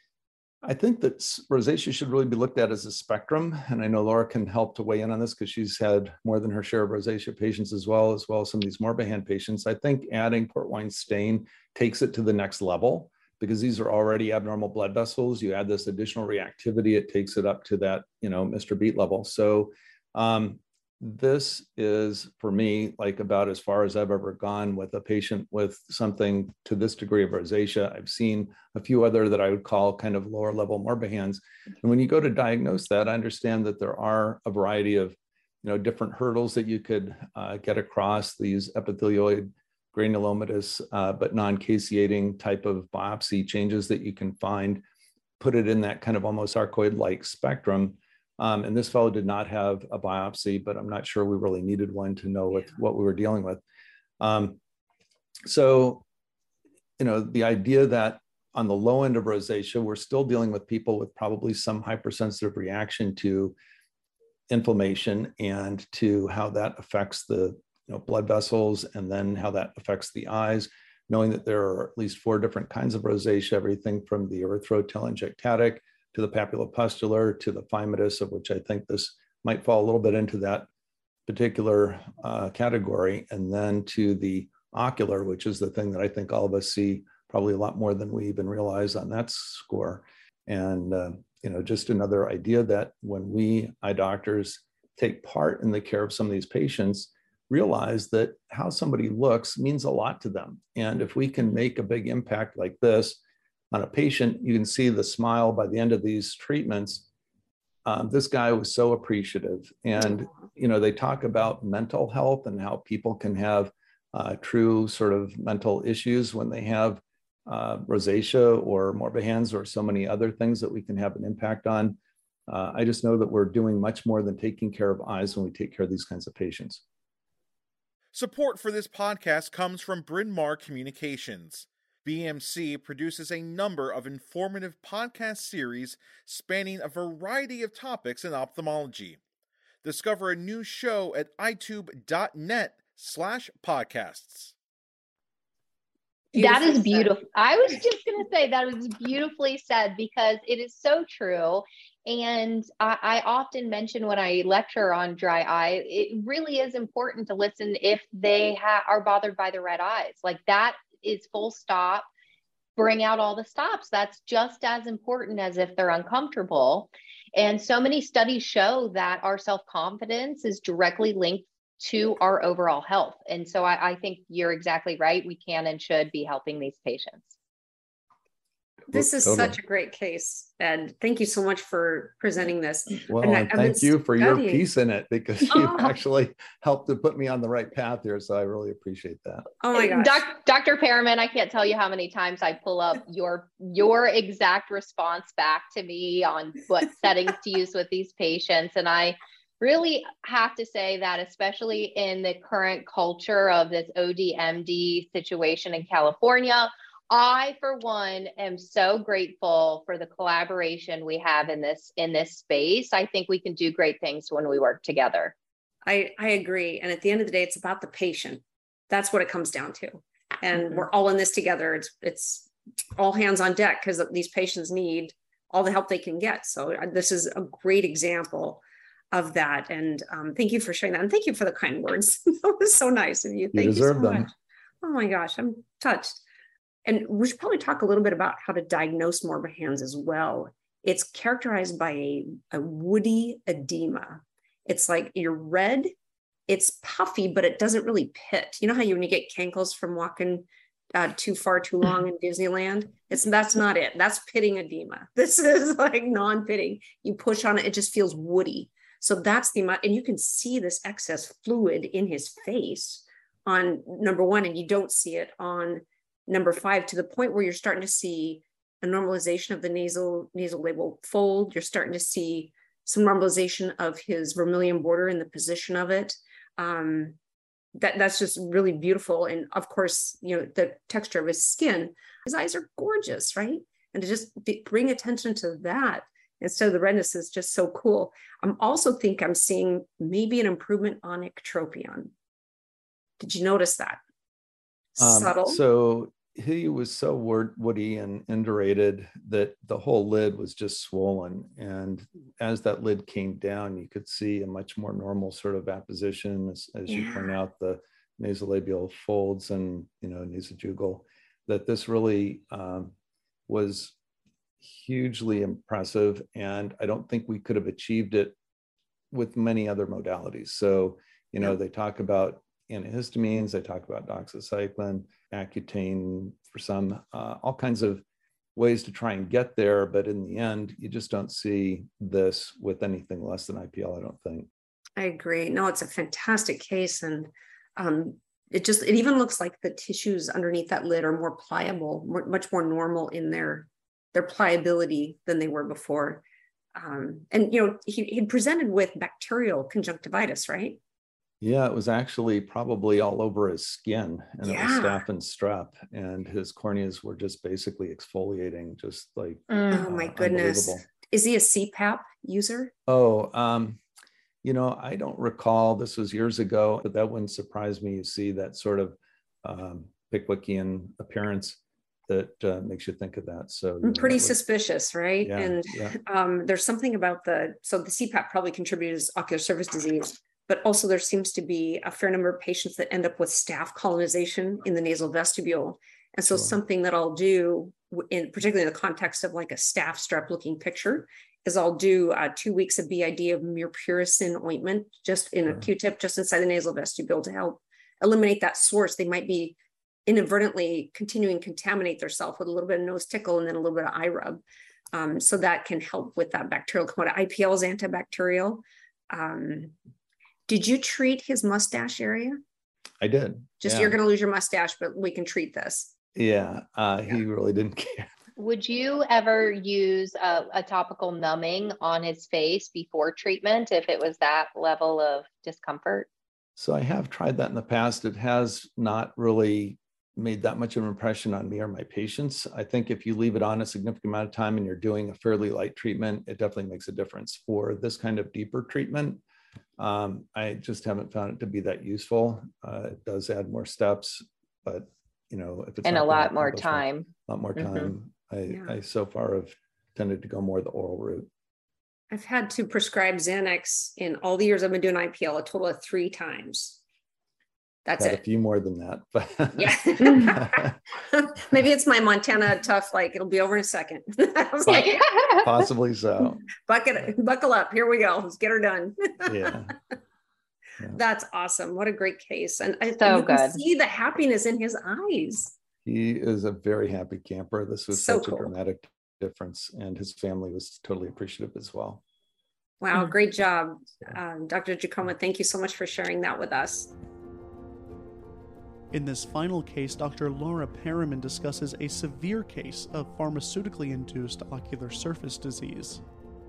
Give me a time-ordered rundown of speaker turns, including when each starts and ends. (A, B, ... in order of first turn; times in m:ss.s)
0:00.6-0:44.8 A
0:45.4-0:53.6 A
0:54.2-0:54.6 A
0:55.4-0:56.0 A
0:57.0-1:03.6 A
1:04.5-1:20.7 A
1:21.3-1:43.2 A
1:43.7-1:47.1 A
1:47.9-2:06.8 A
2:08.1-2:19.2 B
2:19.8-2:24.5 B
2:26.3-2:27.2 C
2:26.4-2:42.1 D
2:42.8-2:57.3 D
2:58.9-3:04.6 C
2:58.9-2:59.6 A
3:03.1-3:09.5 A
3:05.5-3:05.9 C
3:09.6-3:10.3 C
3:09.7-3:35.3 D
3:35.8-3:56.2 C
3:53.5-3:54.3 A
3:56.8-4:05.9 C
4:06.5-4:37.2 C
4:37.8-4:52.1 C
4:53.2-4:54.0 C
4:55.0-4:55.6 C
4:55.0-5:12.9 A
5:06.9-5:07.3 C
5:13.5-5:14.0 A
5:14.6-5:18.4 A
5:19.1-5:28.0 A
5:28.6-5:34.5 A
5:35.0-5:46.2 C
5:46.8-5:50.8 C
5:51.4-6:00.8 A
5:54.4-5:55.0 C
5:59.5-5:59.8 D
5:59.7-6:02.7 C
6:02.9-6:03.8 A
6:04.4-6:14.4 A
6:13.8-6:44.4 C
6:15.2-6:16.0 A
6:26.3-6:26.6 A
6:44.9-6:49.7 C
6:50.5-6:52.4 C
6:53.0-6:54.0 A
6:53.6-6:55.9 C
6:56.2-6:58.1 A
6:58.4-7:06.1 D
7:06.6-7:19.2 A
7:19.8-7:31.3 A
7:25.8-7:27.9 D
7:32.1-7:36.8 C
7:37.8-7:38.2 C
7:38.0-7:40.8 A
7:39.6-7:45.0 C
7:44.7-7:46.4 A
7:44.7-7:45.5 D
7:46.7-7:49.6 C
7:49.2-7:49.7 A
7:50.9-7:55.6 C
7:53.0-7:53.6 D
7:55.8-8:02.0 A
7:57.9-7:58.5 C
8:02.8-8:06.9 C
8:08.9-8:16.0 E